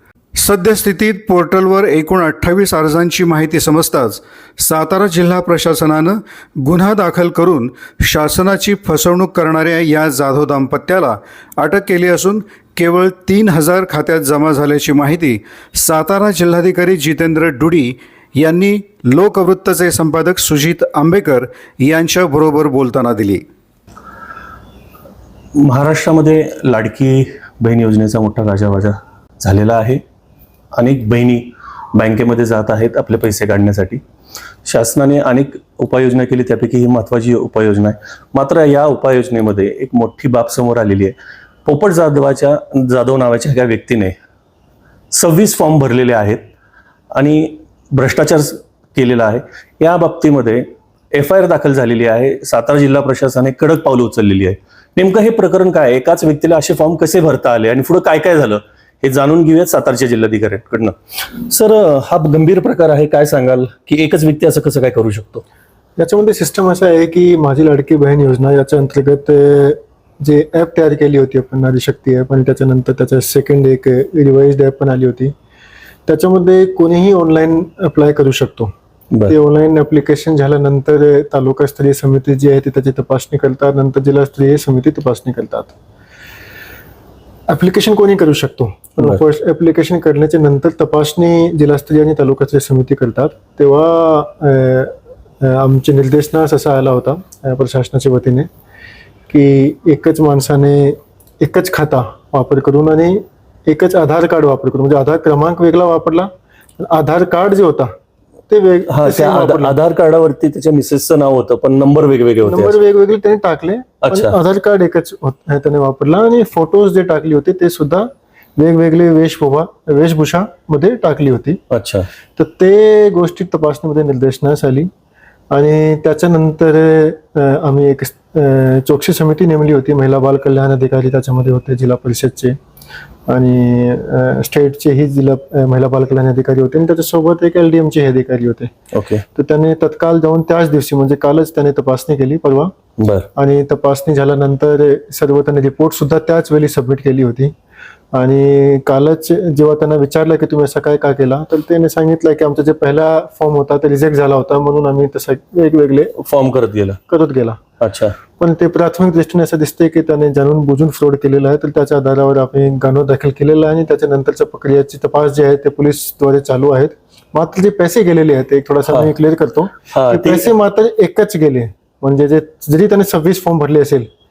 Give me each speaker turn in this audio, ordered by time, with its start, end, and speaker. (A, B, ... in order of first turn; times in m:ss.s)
0:00.3-0:23.4 A
0:25.6-0:30.0 B
0:30.8-0:34.0 B
0:34.6-0:44.1 B
0:45.1-0:46.4 B
0:47.2-1:05.4 B
1:06.0-1:15.3 C
1:16.1-1:18.7 C
1:19.3-1:25.7 C
1:27.5-1:38.5 C
1:39.3-1:47.9 C
1:48.5-1:49.8 C
1:48.9-1:52.8 B
1:52.4-2:01.6 C
1:54.0-1:54.3 B
2:01.7-2:02.1 B
2:02.4-2:04.9 C
2:05.5-2:12.6 C
2:13.3-2:18.7 C
2:18.9-2:19.2 B
2:19.3-2:22.7 C
2:23.0-2:23.3 B
2:23.4-2:27.5 C
2:28.1-2:36.2 C
2:36.2-2:37.0 B
2:37.1-2:37.6 C
2:37.8-2:38.1 B
2:38.4-2:54.1 C
2:48.9-2:49.1 B
2:49.9-2:50.5 B